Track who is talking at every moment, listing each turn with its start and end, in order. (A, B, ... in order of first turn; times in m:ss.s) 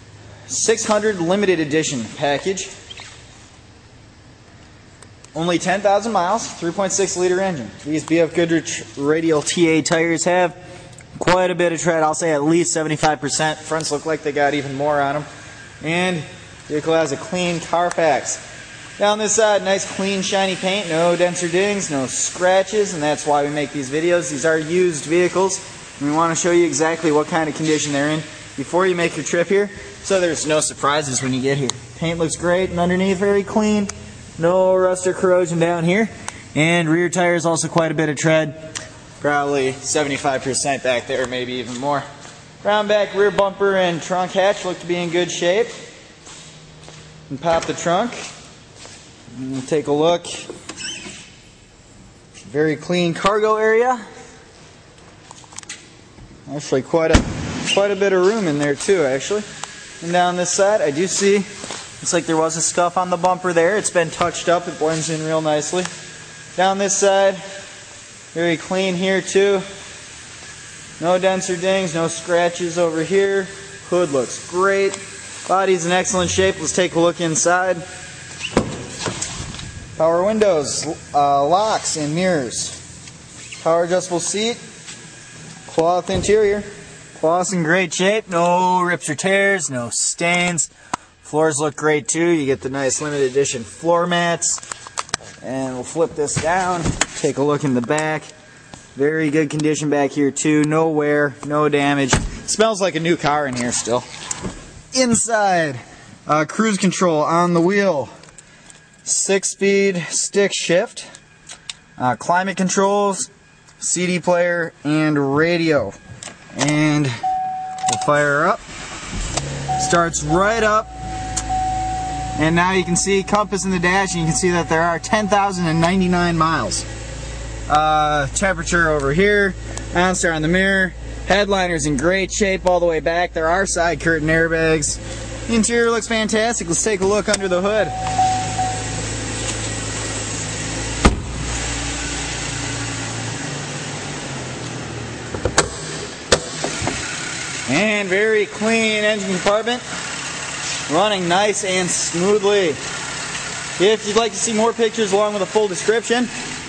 0:00.5-0:02.7 A
0:05.3-0:10.6 A
0:11.1-0:15.3 A
0:15.8-0:18.4 A
0:19.0-0:38.6 A
0:39.2-0:42.0 A
0:42.6-0:45.7 A
0:47.3-0:48.2 A
0:49.4-0:50.4 A
0:52.4-0:54.0 A
0:56.5-0:59.4 A
1:00.0-1:01.5 A
1:02.0-1:05.9 A
1:06.6-1:07.4 A
1:08.3-1:09.6 A
1:11.0-1:17.8 A
1:20.0-1:22.8 A
1:23.6-1:24.6 A
1:25.7-1:30.7 A
1:31.2-1:34.6 A
1:35.4-1:38.3 A
1:39.0-1:44.0 A
1:44.9-1:48.1 A
1:49.0-1:51.1 A
1:52.0-1:53.3 A
1:53.8-1:56.0 A
1:56.5-1:57.2 A
1:57.8-1:58.6 A
1:59.8-2:00.9 A
2:02.4-2:06.8 A
2:07.7-2:17.9 A
2:27.7-2:29.8 A
2:30.9-2:32.8 A
2:33.8-2:36.3 A